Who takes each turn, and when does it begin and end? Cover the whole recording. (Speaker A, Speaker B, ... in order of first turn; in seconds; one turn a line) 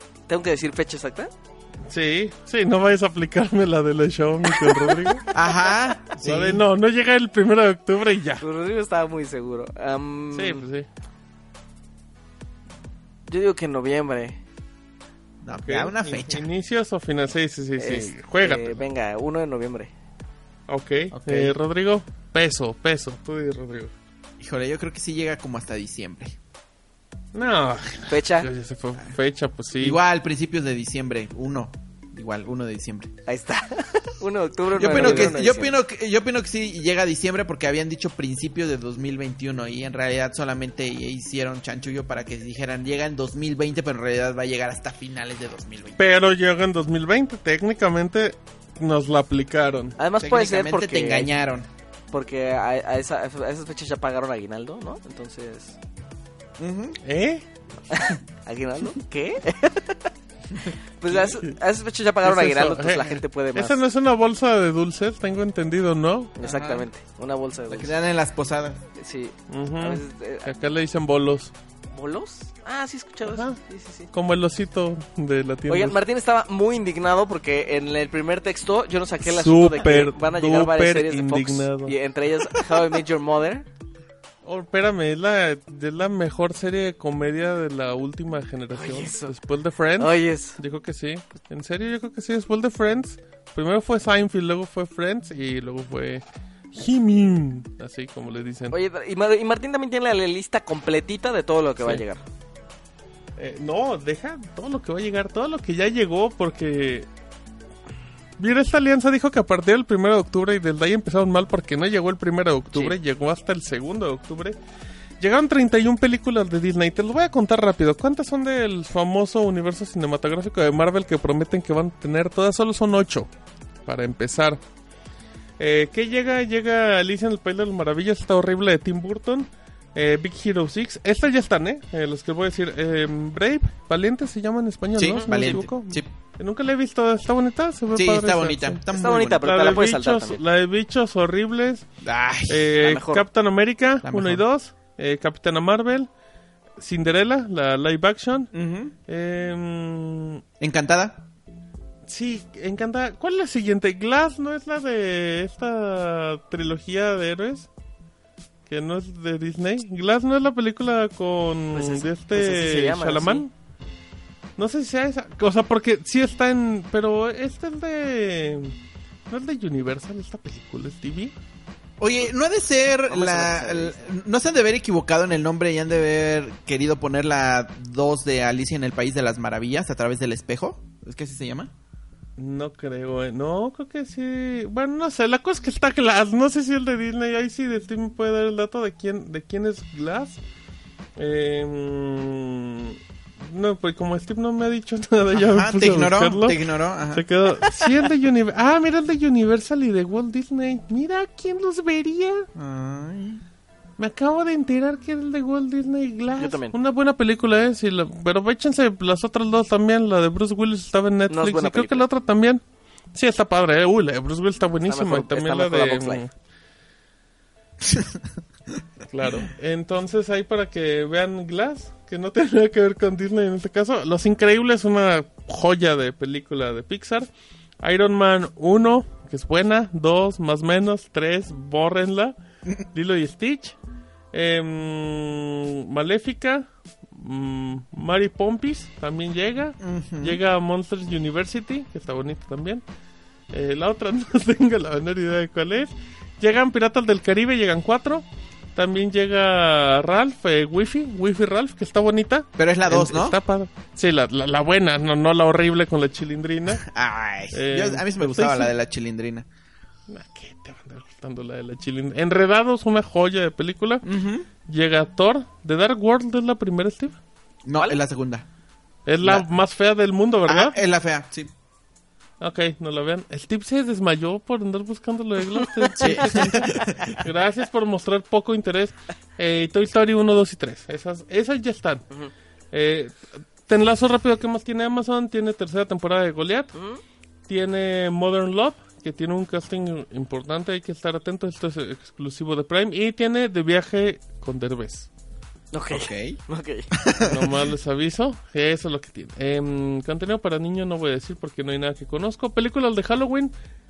Speaker A: 0.3-1.3
Speaker B: 1.9-5.2
Speaker A: 4.5-5.9
Speaker C: 5.3-6.6
Speaker B: 6.2-8.4
Speaker A: 8.4-10.6
Speaker B: 10.3-10.9
Speaker A: 13.3-14.4
Speaker C: 15.4-16.5
Speaker B: 15.5-18.9
Speaker A: 17.8-19.9
Speaker B: 20.7-23.9
Speaker C: 21.1-21.6
Speaker C: 24.4-26.4
Speaker B: 27.3-30.0
Speaker A: 28.1-28.5
Speaker C: 29.8-33.1
Speaker A: 33.3-35.8
Speaker C: 34.7-46.0
Speaker B: 34.9-35.4
Speaker B: 46.0-50.0
Speaker A: 50.0-51.3
Speaker C: 50.2-51.7
Speaker A: 52.1-55.8
Speaker C: 56.6-57.0
Speaker B: 57.0-57.4
Speaker A: 57.9-60.1
Speaker A: 61.0-63.8
Speaker B: 61.1-61.6
Speaker B: 62.2-66.4
Speaker A: 66.4-68.0
Speaker C: 66.4-66.9
Speaker C: 67.7-68.8
Speaker A: 69.0-70.5
Speaker B: 69.5-71.5
Speaker A: 71.9-74.1
Speaker B: 73.2-73.6
Speaker B: 74.1-76.0
Speaker A: 75.7-83.7
Speaker B: 79.2-81.9
Speaker B: 84.4-98.8
Speaker A: 88.7-89.3
Speaker A: 90.0-90.6
Speaker A: 98.7-102.2
Speaker B: 101.8-102.0
Speaker B: 103.4-107.1
Speaker B: 108.4-114.6
Speaker B: 115.2-123.3
Speaker B: 123.8-124.6
Speaker B: 125.6-138.8
Speaker C: 135.0-136.1
Speaker C: 137.9-139.4
Speaker A: 138.9-140.4
Speaker B: 139.4-141.8
Speaker C: 142.0-142.7
Speaker B: 142.5-146.1
Speaker A: 142.8-143.2
Speaker C: 144.0-144.4
Speaker B: 146.8-148.5
Speaker C: 148.5-148.9
Speaker B: 149.1-150.4
Speaker C: 150.6-151.2
Speaker B: 152.1-157.7
Speaker B: 158.7-163.5
Speaker A: 161.7-163.4
Speaker B: 164.6-168.7
Speaker B: 169.3-171.3
Speaker C: 172.0-181.7
Speaker A: 173.1-174.1
Speaker B: 182.4-190.4
Speaker B: 191.2-196.6
Speaker C: 195.3-197.2
Speaker B: 197.1-202.5
Speaker C: 202.5-203.4
Speaker B: 204.0-212.6
Speaker A: 206.3-206.8
Speaker A: 211.3-212.1
Speaker B: 213.1-216.3
Speaker A: 214.9-216.2
Speaker C: 217.8-218.2
Speaker B: 219.1-227.3
Speaker B: 227.8-232.3
Speaker B: 232.9-233.8
Speaker B: 234.3-242.8
Speaker C: 239.8-240.4
Speaker B: 243.5-256.8
Speaker C: 252.6-253.4
Speaker C: 256.7-259.4
Speaker B: 257.5-258.7
Speaker B: 260.1-264.0
Speaker C: 264.0-264.5
Speaker B: 264.7-267.2
Speaker C: 267.6-268.4
Speaker B: 269.1-270.8
Speaker C: 269.2-269.5
Speaker C: 270.4-271.5
Speaker B: 272.4-276.6
Speaker A: 275.6-276.4
Speaker C: 276.0-277.2
Speaker B: 277.2-282.0
Speaker B: 282.7-286.7
Speaker A: 286.7-287.0
Speaker B: 287.5-295.1
Speaker A: 295.7-296.9
Speaker C: 295.9-296.4
Speaker C: 296.9-297.6
Speaker B: 297.2-303.5